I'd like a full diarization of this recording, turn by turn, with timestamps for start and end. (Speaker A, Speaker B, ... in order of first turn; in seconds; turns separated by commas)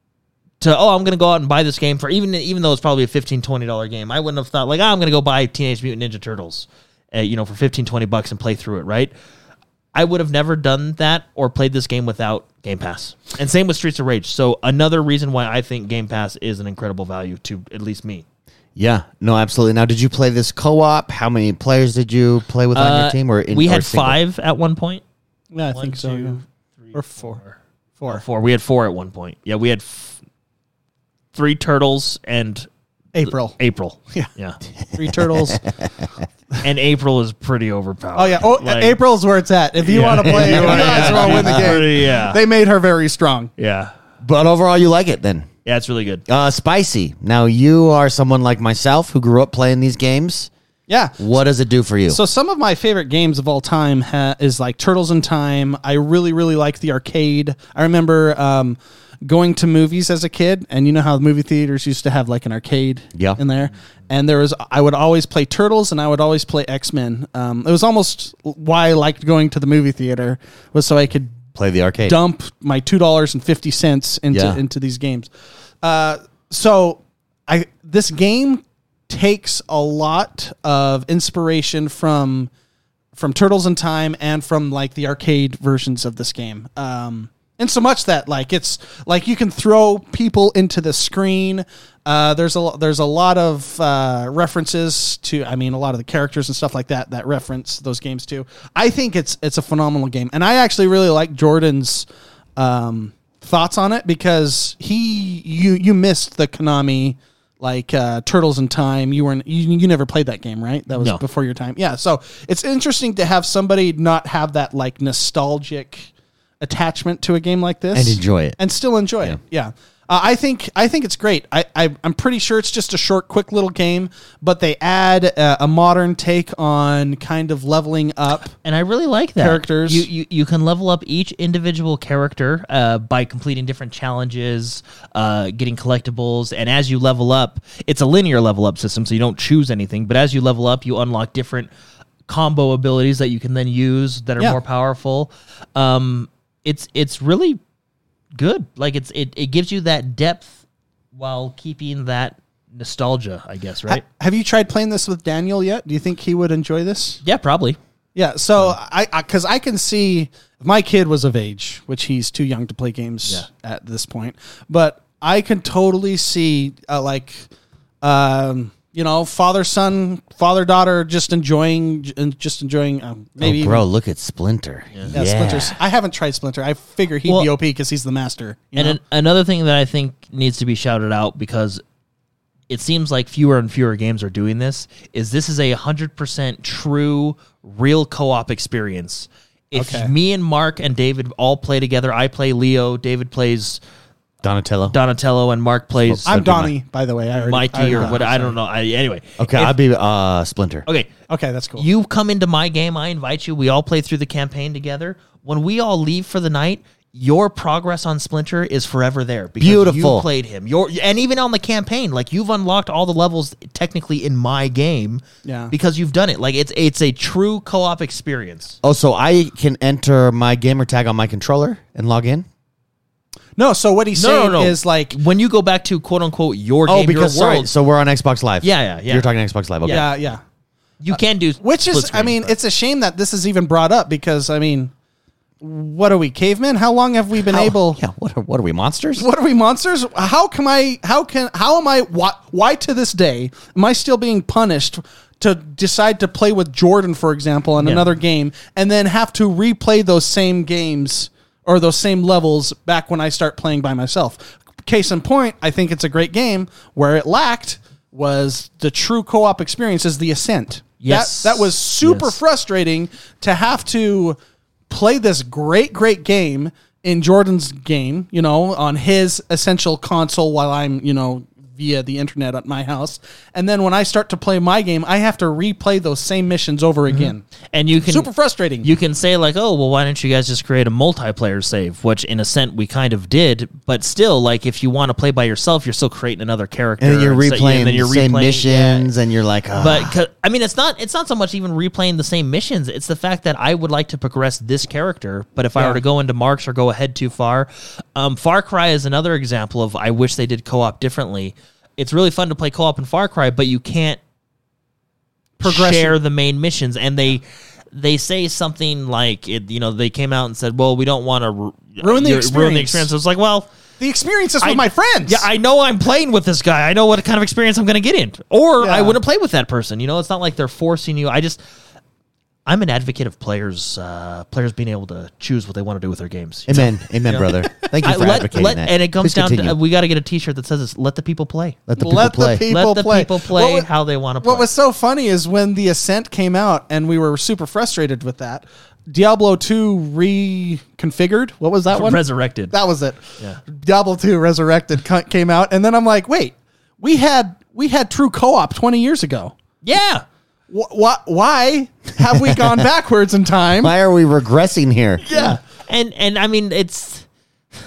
Speaker A: 0.6-9.1, Speaker A: 9.9-18.2, Speaker B: 18.8-24.2, Speaker A: 22.7-25.0, Speaker C: 25.5-26.4, Speaker A: 25.7-30.2, Speaker C: 26.9-27.4, Speaker A: 31.3-32.7, Speaker C: 33.1-33.5, Speaker A: 33.2-34.6, Speaker C: 34.9-35.6, Speaker B: 35.3-36.1, Speaker A: 36.6-39.0, Speaker C: 38.2-43.5, Speaker A: 39.8-42.4, Speaker B: 40.1-41.8, Speaker A: 43.6-43.9, Speaker B: 44.2-45.5, Speaker A: 45.6-46.2, Speaker B: 46.3-50.5, Speaker C: 50.9-51.2, Speaker B: 51.2-52.2, Speaker C: 52.1-71.4, Speaker B: 71.5-72.2, Speaker C: 72.0-75.3, Speaker B: 74.3-74.6, Speaker C: 75.8-82.5, Speaker C: 83.2-102.1, Speaker C: 102.6-116.1, Speaker A: 111.0-111.2, Speaker C: 116.6-128.6, Speaker B: 117.9-118.6, Speaker A: 128.6-141.7, Speaker C: 129.4-130.1, Speaker A: 142.3-147.6, Speaker A: 148.4-150.6, Speaker A: 151.2-154.0, Speaker C: 153.9-157.2, Speaker A: 157.2-157.8, Speaker C: 158.2-167.5, Speaker C: 168.0-173.8, Speaker B: 173.4-175.8, Speaker C: 175.1-179.0, Speaker A: 178.8-181.8, Speaker A: 182.7-193.8, Speaker C: 189.8-190.1, Speaker B: 194.4-195.0, Speaker A: 194.9-196.6, Speaker B: 196.1-196.7, Speaker C: 196.3-198.6, Speaker A: 197.4-199.8, Speaker B: 199.4-200.9, Speaker C: 201.3-201.9, Speaker A: 201.8-218.8, Speaker B: 209.6-210.3, Speaker C: 215.4-215.7, Speaker B: 218.8-222.5, Speaker C: 223.6-225.2, Speaker A: 224.2-227.7, Speaker B: 226.9-230.1, Speaker A: 228.6-229.3, Speaker A: 229.8-230.1, Speaker C: 229.9-230.4, Speaker A: 231.0-232.5, Speaker C: 231.6-234.9, Speaker C: 235.6-238.0, Speaker B: 237.5-239.3, Speaker C: 239.2-264.4, Speaker A: 247.8-248.1, Speaker A: 261.0-262.4, Speaker C: 264.9-277.4, Speaker A: 277.1-278.3, Speaker C: 278.0-278.9, Speaker A: 278.8-289.1, Speaker B: 287.0-290.2, Speaker A: 289.8-304.2, Speaker C: 295.8-296.0, Speaker C: 305.6-306.2, Speaker A: 305.6-313.7, Speaker C: 312.0-313.1, Speaker C: 314.0-315.5, Speaker A: 314.6-321.6, Speaker C: 318.8-319.2, Speaker A: 322.7-331.8, Speaker B: 326.7-329.8, Speaker B: 331.9-332.6, Speaker C: 332.0-333.9, Speaker A: 332.7-334.7, Speaker C: 334.4-349.5, Speaker A: 341.9-342.7, Speaker A: 349.8-350.2, Speaker C: 350.7-353.9, Speaker B: 353.8-355.3, Speaker C: 355.3-355.6, Speaker A: 355.3-357.3